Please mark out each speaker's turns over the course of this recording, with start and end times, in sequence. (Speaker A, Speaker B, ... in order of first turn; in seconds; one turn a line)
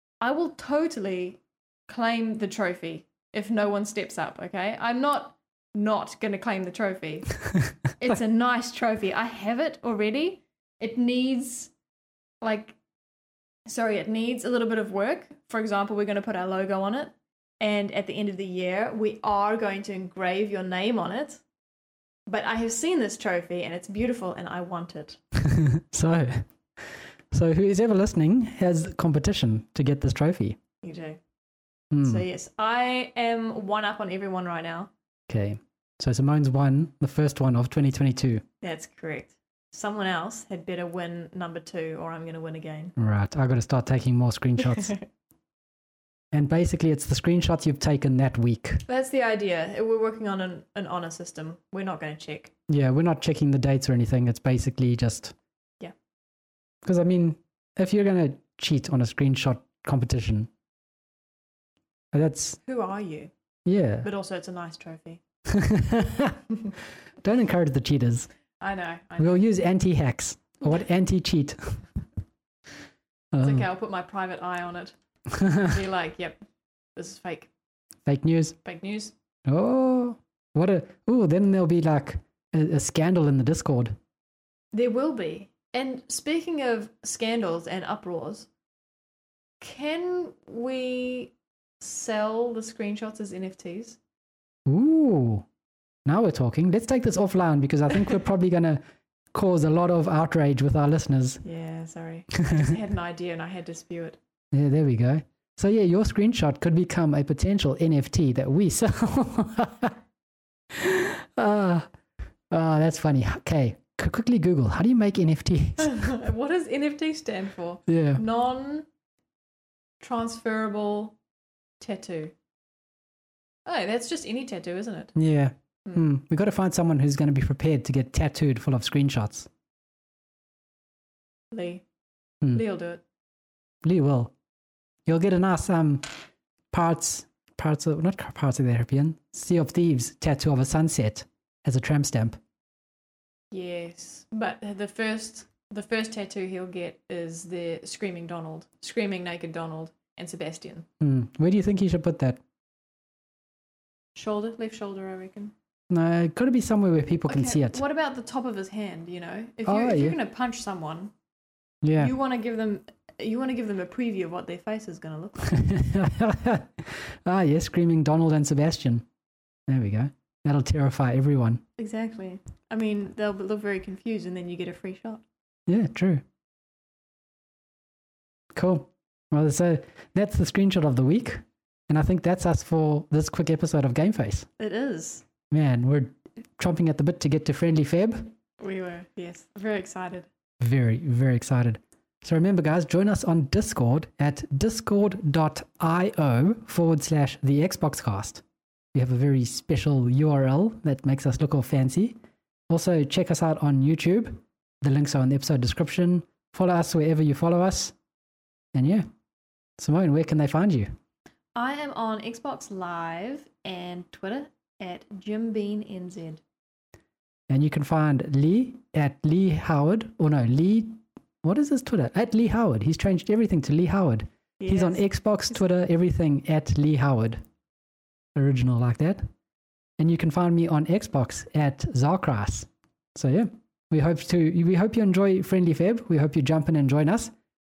Speaker A: 0.2-7.4
Speaker A: 8.0-11.7
Speaker A: 12.4-12.8
Speaker A: 13.7-21.4
Speaker A: 22.3-25.2
Speaker B: 25.3-30.6
Speaker A: 30.8-31.2
Speaker B: 31.9-32.2
Speaker A: 32.0-34.9
Speaker B: 35.3-38.4
Speaker A: 38.6-42.9
Speaker B: 43.0-44.9
Speaker A: 44.6-45.0
Speaker B: 46.3-48.8
Speaker A: 48.9-52.5
Speaker B: 52.7-55.3
Speaker B: 56.8-60.5
Speaker B: 62.1-62.6
Speaker A: 62.6-63.3
Speaker B: 63.6-64.1
Speaker A: 64.0-65.2
Speaker B: 65.5-66.4
Speaker B: 67.2-68.3
Speaker A: 68.6-69.5
Speaker B: 69.2-71.8
Speaker B: 73.3-73.7
Speaker A: 73.4-76.4
Speaker B: 75.3-75.7
Speaker A: 77.0-77.5
Speaker B: 78.0-78.5
Speaker A: 78.6-79.1
Speaker B: 79.5-83.9
Speaker A: 84.7-88.5
Speaker A: 89.6-94.0
Speaker B: 94.7-95.5
Speaker B: 96.0-98.8
Speaker B: 99.3-101.4
Speaker A: 101.4-104.2
Speaker B: 104.5-110.0
Speaker B: 110.7-111.9
Speaker B: 112.5-116.0
Speaker A: 115.8-118.8
Speaker B: 117.9-118.2
Speaker A: 120.0-121.2
Speaker A: 121.8-122.3
Speaker A: 123.7-125.1
Speaker B: 125.1-129.5
Speaker A: 131.5-131.8
Speaker A: 132.5-133.0
Speaker B: 133.8-134.3
Speaker B: 135.1-142.4
Speaker A: 143.5-150.8
Speaker B: 151.0-152.4
Speaker A: 154.2-155.5
Speaker B: 155.9-157.8
Speaker A: 157.3-161.1
Speaker B: 159.6-160.2
Speaker B: 161.8-162.1
Speaker A: 162.0-165.7
Speaker B: 165.5-169.0
Speaker B: 169.7-171.6
Speaker A: 171.8-175.2
Speaker B: 175.7-176.2
Speaker B: 178.5-184.5
Speaker A: 184.6-185.2
Speaker B: 185.5-188.3
Speaker A: 188.6-190.3
Speaker B: 190.6-198.4
Speaker B: 198.9-202.2
Speaker B: 202.7-207.9
Speaker B: 208.7-209.1
Speaker B: 209.8-210.9
Speaker A: 211.5-216.4
Speaker B: 217.5-227.4
Speaker A: 224.6-225.0
Speaker B: 228.3-229.2
Speaker B: 230.0-237.3